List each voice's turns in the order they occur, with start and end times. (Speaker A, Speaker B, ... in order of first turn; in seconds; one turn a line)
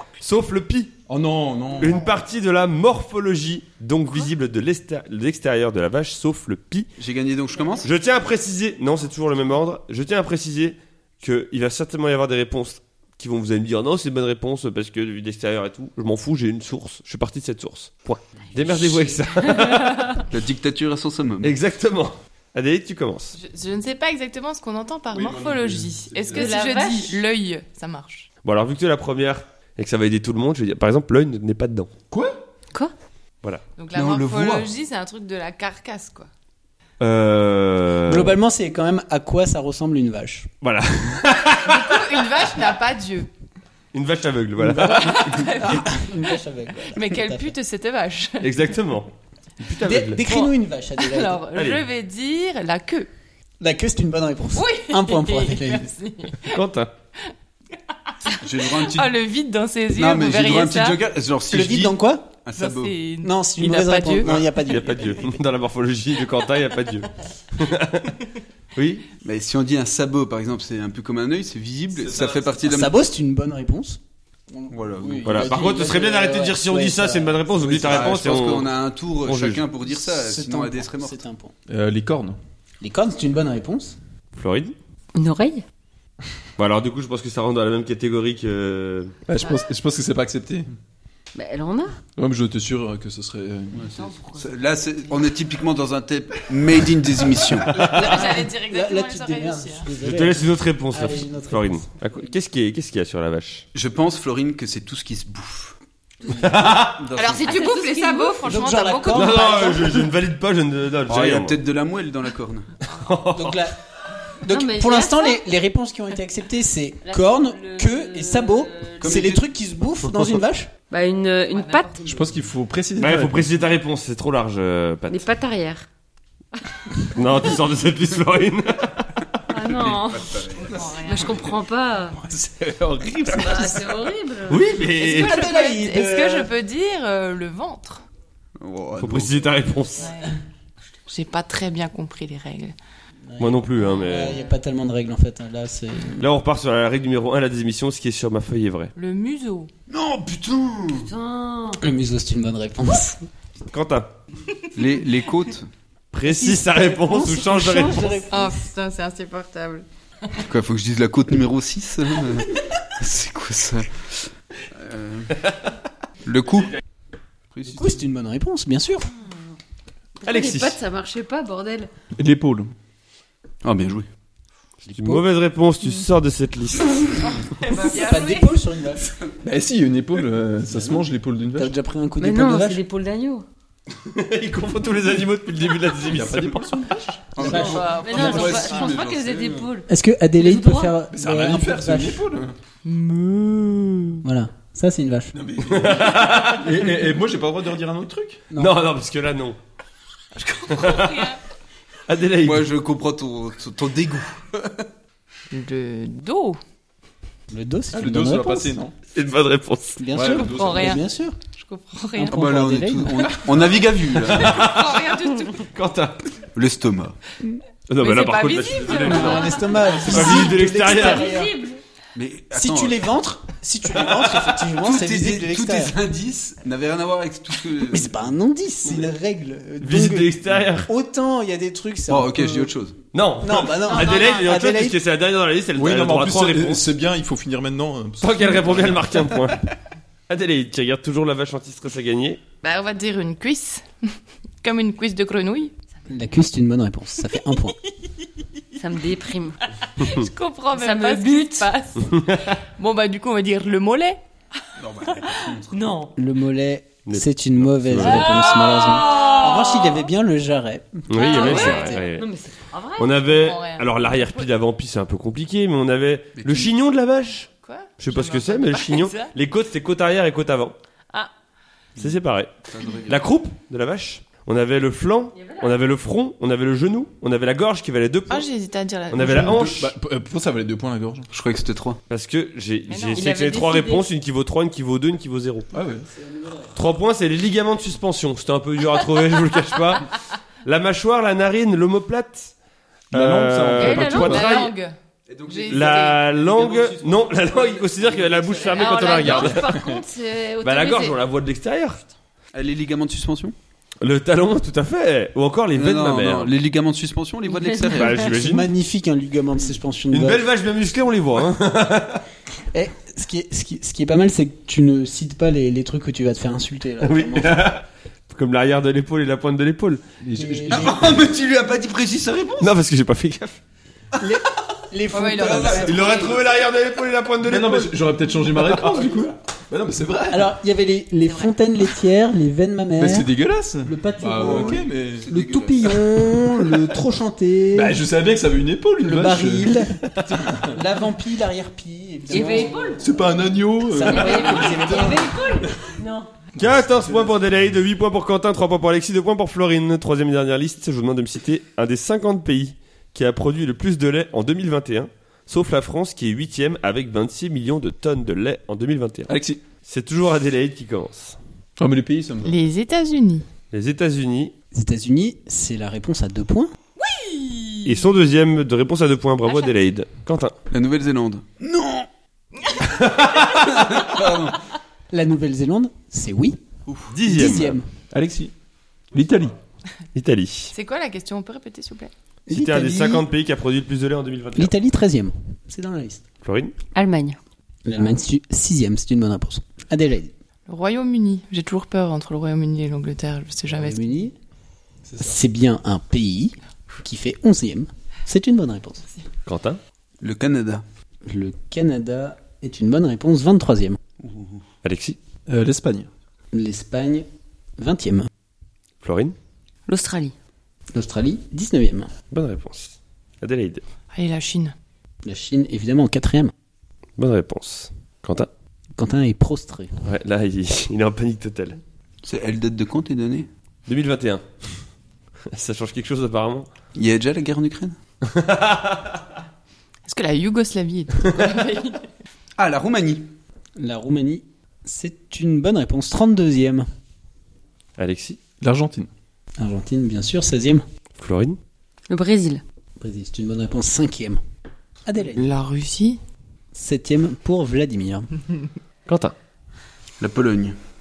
Speaker A: 0.2-0.9
Speaker B: 1.1-2.0
Speaker A: 1.8-6.9
Speaker C: 7.0-7.9
Speaker A: 7.8-20.2
Speaker C: 20.3-21.6
Speaker A: 21.4-23.4
Speaker D: 23.3-28.3
Speaker B: 25.1-26.5
Speaker E: 26.3-27.2
Speaker A: 28.4-31.9
Speaker B: 32.1-32.4
Speaker D: 33.8-36.3
Speaker C: 33.9-34.7
Speaker A: 37.0-38.4
Speaker F: 38.0-40.5
Speaker A: 40.6-42.5
Speaker D: 41.6-43.3
Speaker A: 43.9-45.3
Speaker F: 44.6-47.5
Speaker D: 44.8-48.5
Speaker A: 48.4-50.3
Speaker F: 49.8-51.4
Speaker D: 51.0-53.1
Speaker A: 51.5-51.8
Speaker F: 53.6-55.9
Speaker D: 54.5-56.6
Speaker A: 56.4-56.9
Speaker D: 58.2-61.0
Speaker C: 58.4-59.2
Speaker C: 59.9-62.9
Speaker F: 61.5-62.3
Speaker D: 62.5-64.3
Speaker F: 63.2-65.3
Speaker A: 64.5-68.1
Speaker A: 68.8-69.0
Speaker C: 69.2-72.9
Speaker B: 72.0-72.5
Speaker F: 72.6-74.0
Speaker F: 74.5-78.3
Speaker C: 74.7-75.5
Speaker A: 75.2-79.6
Speaker C: 77.7-81.2
Speaker F: 79.9-81.5
Speaker B: 81.7-82.4
Speaker F: 82.8-84.0
Speaker A: 84.3-84.7
Speaker E: 85.1-85.6
Speaker A: 86.6-89.2
Speaker B: 89.3-90.7
Speaker E: 91.3-92.0
Speaker B: 92.1-93.9
Speaker C: 93.7-97.9
Speaker E: 93.9-94.5
Speaker F: 97.7-102.1
Speaker A: 97.7-98.1
Speaker D: 97.8-99.9
Speaker A: 100.0-103.7
Speaker C: 103.7-105.7
Speaker F: 106.2-106.8
Speaker A: 106.3-107.0
Speaker C: 106.6-107.6
Speaker D: 107.2-109.5
Speaker E: 107.4-109.6
Speaker F: 108.3-110.1
Speaker A: 109.1-111.6
Speaker C: 111.1-112.7
Speaker A: 112.8-113.7
Speaker F: 113.3-113.8
Speaker F: 114.4-120.7
Speaker E: 114.5-115.4
Speaker E: 117.0-119.2
Speaker C: 119.0-119.4
Speaker E: 120.9-122.3
Speaker D: 121.5-122.0
Speaker B: 122.0-123.5
Speaker A: 123.0-125.2
Speaker E: 125.1-125.8
Speaker A: 127.0-129.2
Speaker E: 129.5-132.2
Speaker C: 129.8-130.7
Speaker D: 130.5-131.5
Speaker A: 133.2-133.7
Speaker E: 133.3-134.7
Speaker A: 134.5-135.4
Speaker F: 135.0-136.5
Speaker D: 135.0-138.0
Speaker C: 138.6-139.4
Speaker A: 139.0-140.1
Speaker D: 140.0-140.3
Speaker D: 141.1-142.8
Speaker F: 143.3-146.3
Speaker A: 143.4-144.4
Speaker A: 146.2-148.9
Speaker D: 148.9-149.7
Speaker C: 149.9-151.1
Speaker E: 151.0-151.8
Speaker F: 151.8-153.2
Speaker A: 153.7-154.1
Speaker C: 154.7-155.7
Speaker A: 156.1-158.2
Speaker F: 156.2-158.6
Speaker D: 158.3-159.8
Speaker C: 160.4-165.4
Speaker C: 166.2-166.8
Speaker C: 167.5-168.0
Speaker F: 167.7-169.1
Speaker E: 170.2-171.9
Speaker A: 170.2-170.8
Speaker B: 172.2-172.7
Speaker C: 173.6-174.1
Speaker A: 174.9-177.1
Speaker F: 174.9-175.2
Speaker E: 177.5-178.4
Speaker D: 177.6-178.5
Speaker F: 177.8-179.1
Speaker B: 179.4-181.7
Speaker F: 180.7-181.0
Speaker F: 181.6-182.8
Speaker E: 182.2-183.4
Speaker A: 184.0-186.6
Speaker B: 186.1-187.7
Speaker C: 187.3-189.7
Speaker F: 187.4-188.4
Speaker E: 187.5-189.9
Speaker D: 187.6-188.0
Speaker F: 189.9-192.2
Speaker E: 190.4-191.0
Speaker B: 191.1-192.5
Speaker D: 193.0-193.9
Speaker F: 194.2-195.3
Speaker B: 195.3-198.4
Speaker A: 195.6-196.9
Speaker F: 198.5-198.8
Speaker A: 198.5-199.6
Speaker D: 200.4-201.4
Speaker A: 200.7-201.3
Speaker A: 202.1-202.7
Speaker C: 202.4-204.9
Speaker D: 205.5-206.6
Speaker F: 207.5-208.8
Speaker B: 207.9-208.9
Speaker A: 209.1-210.0
Speaker F: 210.0-211.4
Speaker B: 210.1-211.0
Speaker D: 210.2-212.4
Speaker F: 212.1-213.4
Speaker C: 212.2-214.7
Speaker D: 214.2-215.7
Speaker A: 214.3-216.3
Speaker C: 216.5-217.2
Speaker A: 217.9-221.3
Speaker D: 218.0-220.4
Speaker F: 218.9-221.7
Speaker E: 220.1-221.8
Speaker C: 222.1-223.0
Speaker F: 222.5-225.9
Speaker C: 224.3-228.1
Speaker F: 227.8-232.7
Speaker A: 229.8-230.9
Speaker C: 232.1-233.0
Speaker A: 233.1-236.9
Speaker F: 233.4-235.0
Speaker D: 233.9-234.4
Speaker B: 235.8-239.3
Speaker A: 238.2-239.7
Speaker A: 240.3-242.4
Speaker D: 242.6-245.7
Speaker F: 246.1-247.8
Speaker E: 248.8-249.6
Speaker D: 249.9-254.2
Speaker E: 250.7-251.7
Speaker A: 252.1-252.4
Speaker C: 254.8-255.7
Speaker E: 255.7-256.1
Speaker F: 256.1-262.0
Speaker A: 257.1-258.4
Speaker E: 258.0-260.0
Speaker A: 261.1-262.3
Speaker E: 261.1-263.1
Speaker D: 261.3-261.8
Speaker A: 263.0-267.5
Speaker D: 263.2-264.5
Speaker C: 266.4-266.7
Speaker D: 267.6-269.3
Speaker A: 268.0-270.8
Speaker A: 272.0-278.5
Speaker C: 272.7-273.2
Speaker E: 275.3-275.7
Speaker D: 278.3-279.6
Speaker A: 279.1-279.9
Speaker B: 279.1-281.3
Speaker C: 281.3-282.0
Speaker A: 282.1-285.7
Speaker D: 282.9-283.3
Speaker E: 283.1-284.1
Speaker B: 285.7-286.1
Speaker F: 286.1-286.7
Speaker A: 286.7-290.1
Speaker A: 290.6-292.5
Speaker A: 293.1-294.7
Speaker B: 293.1-294.6
Speaker D: 293.8-294.9
Speaker E: 293.8-294.7
Speaker C: 295.3-298.9
Speaker D: 295.4-296.2
Speaker A: 295.7-299.9
Speaker E: 298.7-301.2
Speaker A: 300.6-302.0
Speaker C: 302.5-303.5
Speaker A: 304.0-306.5
Speaker C: 305.7-308.3
Speaker E: 307.6-308.0
Speaker A: 307.9-308.7
Speaker F: 308.2-310.5
Speaker A: 310.1-312.2
Speaker F: 312.7-317.7
Speaker A: 317.0-320.0
Speaker B: 320.2-321.2
Speaker F: 320.3-321.2
Speaker C: 320.7-322.7
Speaker A: 322.6-323.6
Speaker F: 324.2-326.3
Speaker D: 325.1-326.4
Speaker C: 325.4-326.4
Speaker A: 325.7-327.9
Speaker B: 327.4-330.5
Speaker F: 330.3-333.3
Speaker B: 333.0-335.3
Speaker F: 333.8-338.0
Speaker C: 334.3-336.0
Speaker B: 337.7-339.8
Speaker F: 339.0-339.9
Speaker B: 340.3-340.8
Speaker F: 340.5-343.0
Speaker E: 342.3-343.2
Speaker B: 343.0-345.1
Speaker F: 343.9-345.5
Speaker E: 343.9-346.3
Speaker A: 346.6-361.4
Speaker B: 359.3-359.6
Speaker B: 361.8-362.6
Speaker D: 362.4-363.4
Speaker A: 363.7-364.5
Speaker F: 364.7-366.7
Speaker D: 367.0-368.0
Speaker A: 367.8-370.5
Speaker C: 370.7-372.1
Speaker A: 372.8-373.9
Speaker C: 373.5-374.6
Speaker F: 375.1-376.6
Speaker C: 376.9-377.1
Speaker A: 377.1-377.8
Speaker F: 377.2-377.9
Speaker B: 378.1-378.5
Speaker B: 379.1-379.5
Speaker A: 380.1-380.7
Speaker D: 380.7-382.1
Speaker F: 382.5-383.2
Speaker A: 382.5-384.7
Speaker F: 384.6-386.2
Speaker A: 386.4-386.7
Speaker E: 386.9-387.4
Speaker F: 387.8-390.3
Speaker D: 390.7-394.0
Speaker F: 393.7-394.3
Speaker B: 395.0-395.3
Speaker F: 395.2-399.0
Speaker A: 399.4-399.8
Speaker C: 400.2-400.8
Speaker F: 401.2-404.0
Speaker C: 404.2-404.6
Speaker A: 404.8-405.2
Speaker B: 405.5-406.1
Speaker F: 406.5-407.2
Speaker F: 407.8-408.3
Speaker A: 409.0-409.4
Speaker E: 409.9-410.3
Speaker F: 410.9-412.1
Speaker A: 412.3-413.8
Speaker D: 414.1-414.7
Speaker F: 415.2-416.5
Speaker A: 417.2-418.5
Speaker F: 419.0-419.9
Speaker A: 420.0-421.8
Speaker C: 422.2-423.5
Speaker A: 423.9-424.8
Speaker A: 425.5-426.7
Speaker C: 426.9-427.9
Speaker A: 428.2-429.2
Speaker D: 430.0-432.0
Speaker C: 432.6-433.3
Speaker F: 433.8-436.9
Speaker A: 438.0-438.4
Speaker B: 438.6-439.1
Speaker F: 439.6-440.8
Speaker A: 441.2-441.6
Speaker E: 442.1-442.6
Speaker F: 443.0-444.4
Speaker F: 445.1-445.5
Speaker D: 445.3-446.2
Speaker F: 446.7-448.3
Speaker A: 449.1-449.3
Speaker C: 450.2-450.8